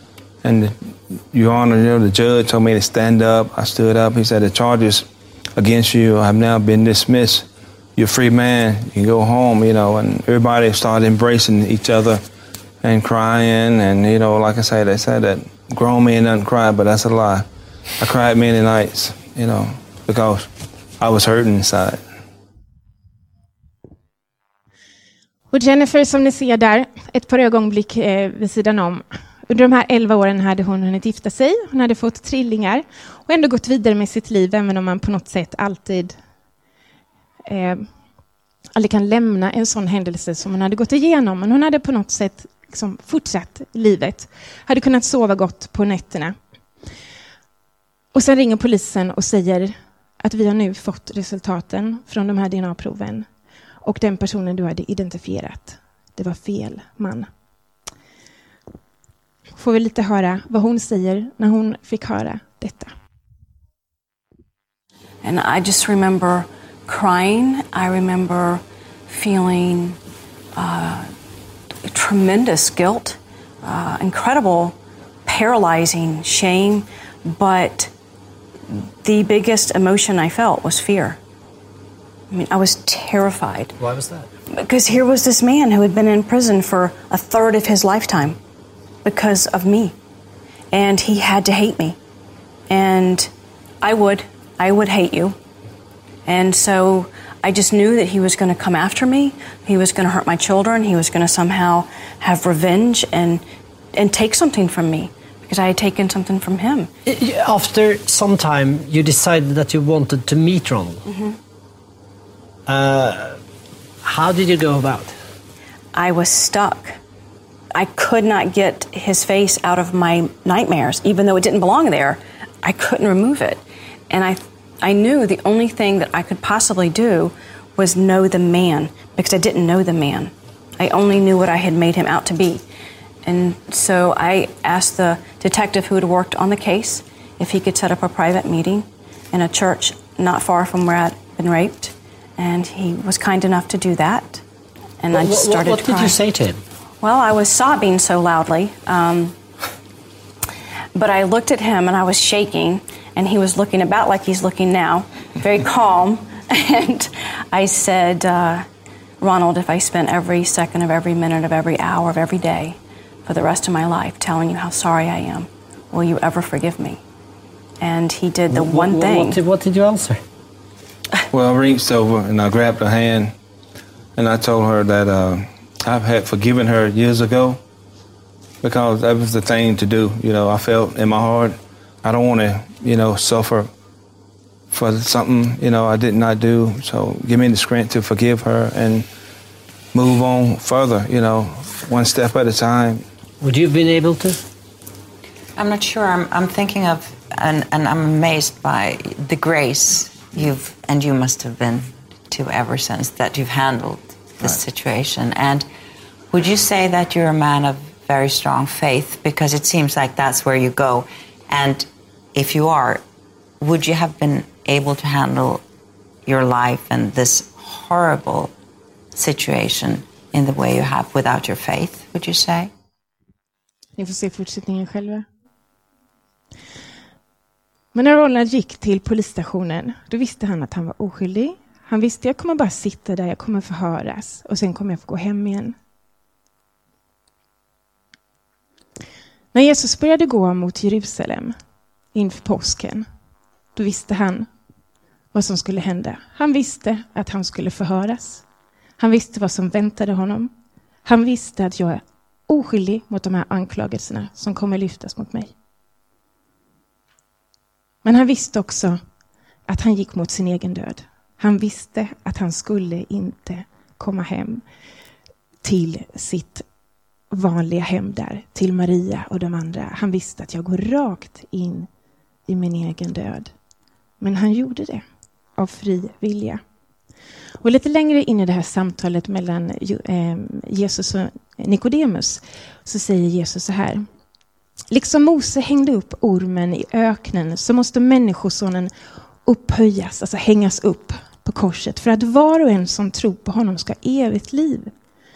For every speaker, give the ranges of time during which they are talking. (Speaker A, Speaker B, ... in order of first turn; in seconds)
Speaker A: 0.4-12.2, 12.8-17.5, 18.0-22.0, 171.3-173.3, 174.2-177.6, 178.6-183.7, 184.7-189.1, 189.9-193.0
Speaker B: 25.5-36.1, 37.5-37.9, 38.8-46.4, 48.1-53.3, 53.8-57.3, 59.6-62.9, 224.0-225.2, 227.9-235.8, 239.5-241.6, 242.1-243.1, 243.8-244.5, 245.3-248.4, 249.0-250.5, 251.1-255.5, 258.0-259.0, 259.7-264.6, 265.6-266.6, 267.3-271.9, 272.5-273.5, 274.2-275.0, 275.6-276.6, 277.6-284.0, 284.9-288.9, 289.4-294.9
Speaker C: 65.2-70.0, 70.5-71.1, 71.9-74.8, 75.2-77.9, 78.7-81.2, 82.3-83.8, 84.5-88.4, 89.0-89.9, 90.7-92.0, 92.7-93.3, 93.8-95.4, 96.2-103.4, 103.9-106.9, 111.1-111.4, 115.9-117.0, 117.7-132.6, 133.2-144.4, 145.0-146.2, 147.0-149.3, 150.9-158.7, 159.2-167.0, 167.8-169.4
Speaker D: 83.8-84.3, 107.1-111.0, 112.7-113.4, 114.0-115.1, 145.1-146.6, 168.5-170.2, 193.4-194.4
Speaker E: 195.6-205.7, 206.3-213.0, 213.6-215.6, 216.2-218.5, 219.1-222.7